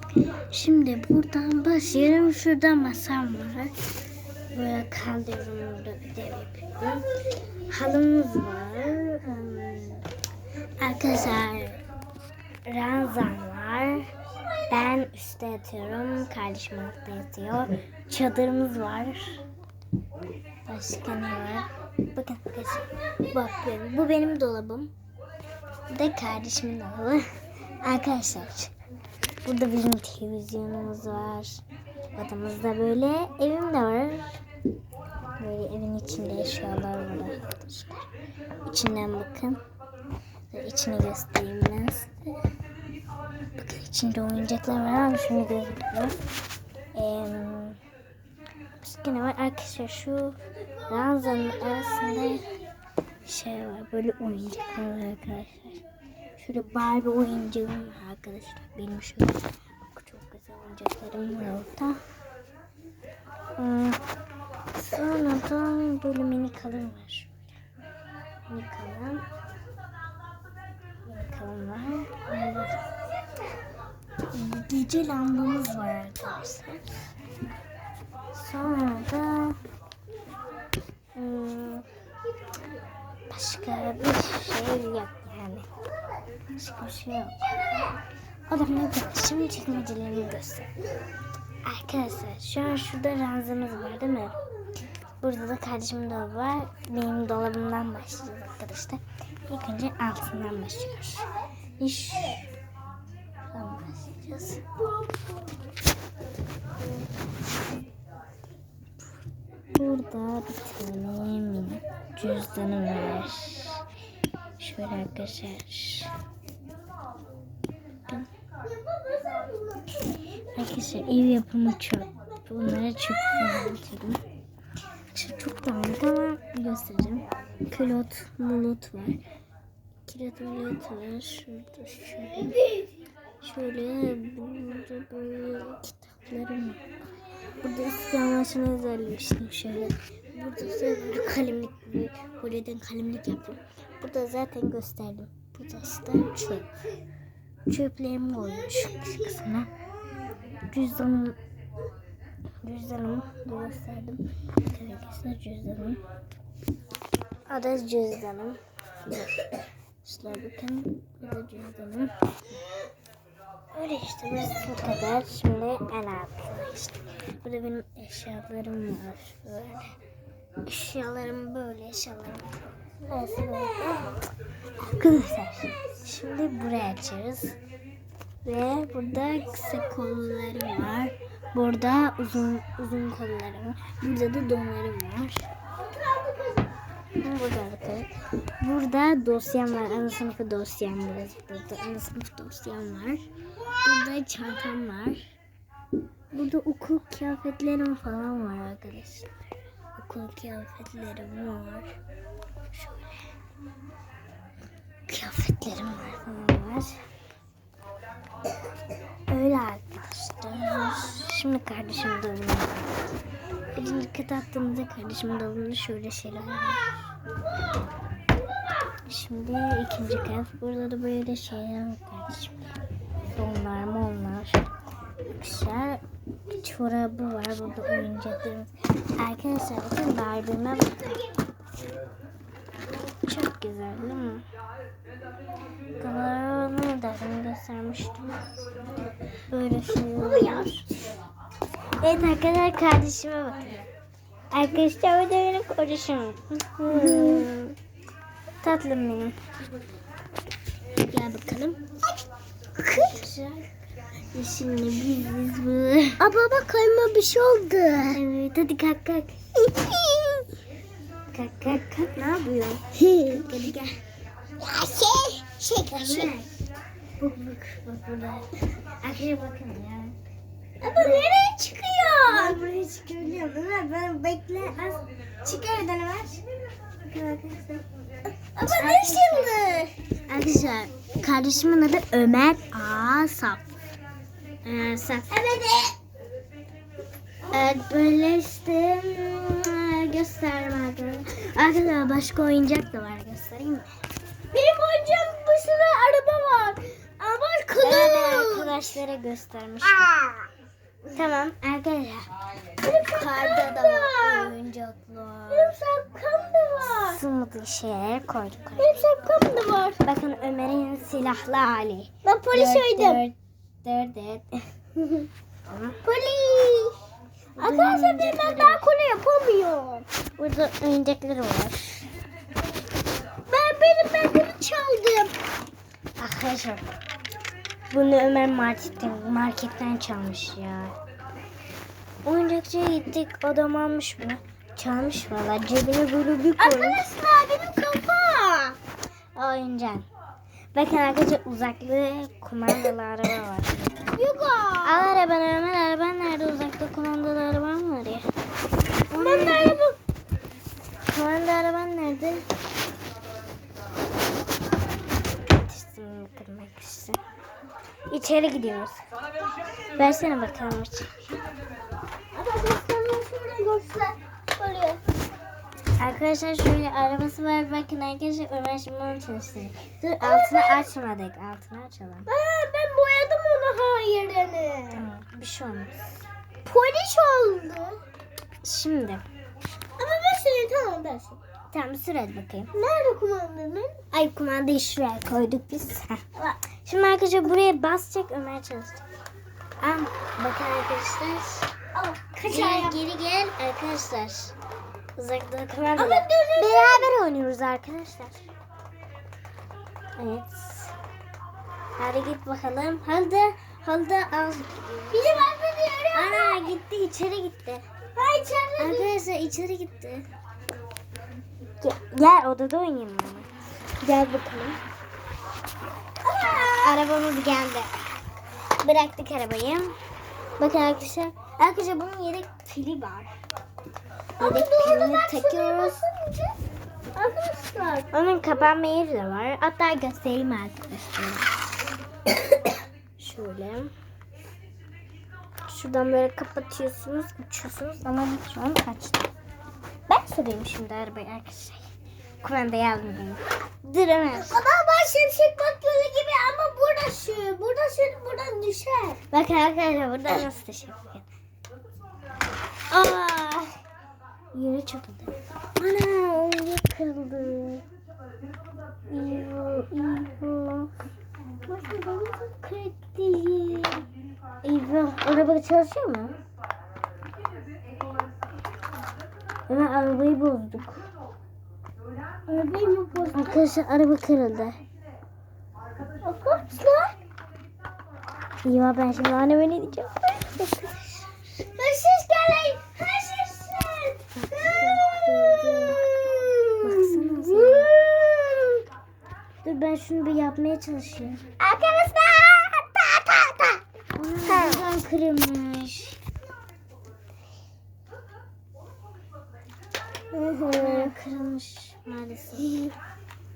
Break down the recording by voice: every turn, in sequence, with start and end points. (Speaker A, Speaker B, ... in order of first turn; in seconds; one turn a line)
Speaker A: 0.3-3.7
Speaker A: 4.5-7.1
Speaker A: 7.7-10.1
Speaker A: 10.8-11.8
Speaker A: 12.7-14.1
Speaker A: 14.7-19.4
Speaker A: 20.7-24.9
Speaker A: 25.9-27.2
Speaker A: 27.8-28.7
Speaker A: 29.4-31.6
Speaker A: 32.1-34.4
Speaker A: 35.4-38.1
Speaker A: 38.6-39.6
Speaker A: 40.5-42.4
Speaker A: 43.6-46.1
Speaker A: 47.0-47.8
Speaker A: 48.8-52.5
Speaker A: 53.2-55.8
Speaker A: 56.4-62.0
Speaker A: 63.6-64.0
Speaker A: 64.8-67.5
Speaker A: 68.5-69.2
Speaker A: 71.1-72.8
Speaker A: 74.3-77.1
Speaker A: 78.3-79.6
Speaker A: 81.2-81.9
Speaker A: 83.3-85.7
Speaker A: 86.5-88.0
Speaker A: 88.5-90.7
Speaker A: 91.6-94.4
Speaker A: 95.2-101.3
Speaker A: 101.8-102.5
Speaker A: 103.5-104.6
Speaker A: 109.7-113.8
Speaker A: 114.6-116.1
Speaker B: 118.6-119.9
Speaker A: 120.5-124.2
Speaker A: 125.1-129.2
Speaker A: 130.1-132.7
Speaker A: 133.4-136.9
Speaker A: 137.6-146.7
Speaker A: 147.7-149.7
Speaker A: 150.6-151.4
Speaker A: 152.6-156.0
Speaker A: 157.5-159.3
Speaker A: 160.0-162.1
Speaker A: 163.7-169.9
Speaker A: 170.7-172.5
Speaker A: 173.1-174.2
Speaker A: 174.8-177.6
Speaker A: 178.4-185.5
Speaker B: 185.8-186.7
Speaker A: 187.2-193.2
Speaker A: 193.8-195.2
Speaker A: 196.3-199.3
Speaker A: 199.9-201.9
Speaker A: 202.7-203.2
Speaker A: 205.1-207.0
Speaker A: 209.3-212.9
Speaker A: 213.7-217.0
Speaker A: 219.1-222.7
Speaker A: 223.4-224.7
Speaker A: 225.3-226.0
Speaker A: 226.6-231.2
Speaker A: 233.2-234.4
Speaker A: 236.0-238.3
Speaker A: 239.5-240.8
Speaker B: 240.1-240.9
Speaker A: 242.0-243.9
Speaker A: 244.5-247.8
Speaker B: 246.9-247.5
Speaker A: 248.6-249.4
Speaker A: 251.0-251.8
Speaker B: 252.8-253.2
Speaker A: 252.8-253.7
Speaker A: 254.3-256.2
Speaker B: 256.2-258.2
Speaker A: 258.1-259.4
Speaker B: 259.7-260.5
Speaker A: 261.3-264.0
Speaker B: 263.0-263.6
Speaker B: 264.6-266.3
Speaker A: 265.9-266.6
Speaker A: 267.2-270.2
Speaker B: 270.8-272.6
Speaker A: 270.9-271.3
Speaker A: 272.2-276.4
Speaker B: 277.1-277.8
Speaker A: 277.2-277.8
Speaker B: 278.6-279.9
Speaker A: 278.7-279.7
Speaker A: 280.3-283.6
Speaker A: 284.6-285.5
Speaker B: 285.3-286.0
Speaker A: 287.5-293.9
Speaker B: 294.5-298.9
Speaker A: 297.8-300.1
Speaker B: 299.8-300.5
Speaker A: 301.1-302.3
Speaker B: 302.8-304.6
Speaker A: 303.2-305.8
Speaker B: 305.5-307.2
Speaker A: 306.8-309.0
Speaker B: 308.8-310.0
Speaker A: 310.0-314.6
Speaker B: 312.2-313.2
Speaker A: 315.7-316.0
Speaker B: 316.0-317.0
Speaker A: 317.6-318.9
Speaker B: 317.6-320.1
Speaker A: 320.4-322.1
Speaker B: 323.5-325.4
Speaker A: 326.2-326.9
Speaker A: 327.9-330.9
Speaker A: 332.2-337.1
Speaker B: 336.6-338.8
Speaker A: 339.4-340.1
Speaker A: 340.7-344.1
Speaker B: 344.1-345.2
Speaker A: 344.8-348.2
Speaker B: 349.1-350.0
Speaker A: 349.1-349.8
Speaker A: 351.1-352.5
Speaker A: 355.5-357.2
Speaker A: 358.1-359.0
Speaker A: 359.9-361.1
Speaker B: 362.3-365.0
Speaker A: 366.0-372.3
Speaker B: 370.2-370.9
Speaker B: 372.3-375.0
Speaker A: 374.9-376.2
Speaker B: 376.6-378.0
Speaker A: 378.6-379.2
Speaker B: 380.0-381.4
Speaker A: 381.7-382.7
Speaker B: 382.7-384.0
Speaker A: 384.1-389.0
Speaker A: 389.8-391.7
Speaker B: 391.9-393.0
Speaker A: 392.4-394.6
Speaker A: 395.2-398.4
Speaker B: 396.0-397.1
Speaker A: 400.2-400.9
Speaker A: 402.0-405.5
Speaker B: 405.1-406.6
Speaker A: 406.1-407.8
Speaker B: 408.1-409.1
Speaker A: 408.8-410.2
Speaker A: 411.8-413.5
Speaker B: 414.0-414.8
Speaker B: 416.3-416.7
Speaker A: 416.4-418.0
Speaker A: 418.8-419.9
Speaker A: 420.6-423.3
Speaker B: 424.4-426.6
Speaker A: 424.4-426.0
Speaker B: 427.1-428.1
Speaker A: 428.1-431.5
Speaker A: 433.2-433.9
Speaker A: 435.7-439.3
Speaker A: 440.1-441.9
Speaker A: 442.4-444.6
Speaker B: 444.3-449.2
Speaker A: 449.3-451.3
Speaker A: 452.9-453.7
Speaker A: 454.5-457.8
Speaker A: 459.1-460.9
Speaker A: 461.7-464.1
Speaker A: 464.6-466.4
Speaker A: 469.7-471.1
Speaker B: 472.5-473.6
Speaker A: 473.3-474.8
Speaker B: 476.2-477.2
Speaker A: 478.6-481.4
Speaker B: 481.6-488.8
Speaker A: 484.4-486.1
Speaker A: 486.8-487.9
Speaker A: 489.6-491.5
Speaker B: 491.6-493.8
Speaker A: 494.1-496.2
Speaker B: 494.5-494.8
Speaker B: 500.3-501.1
Speaker A: 500.7-502.9
Speaker B: 502.7-502.9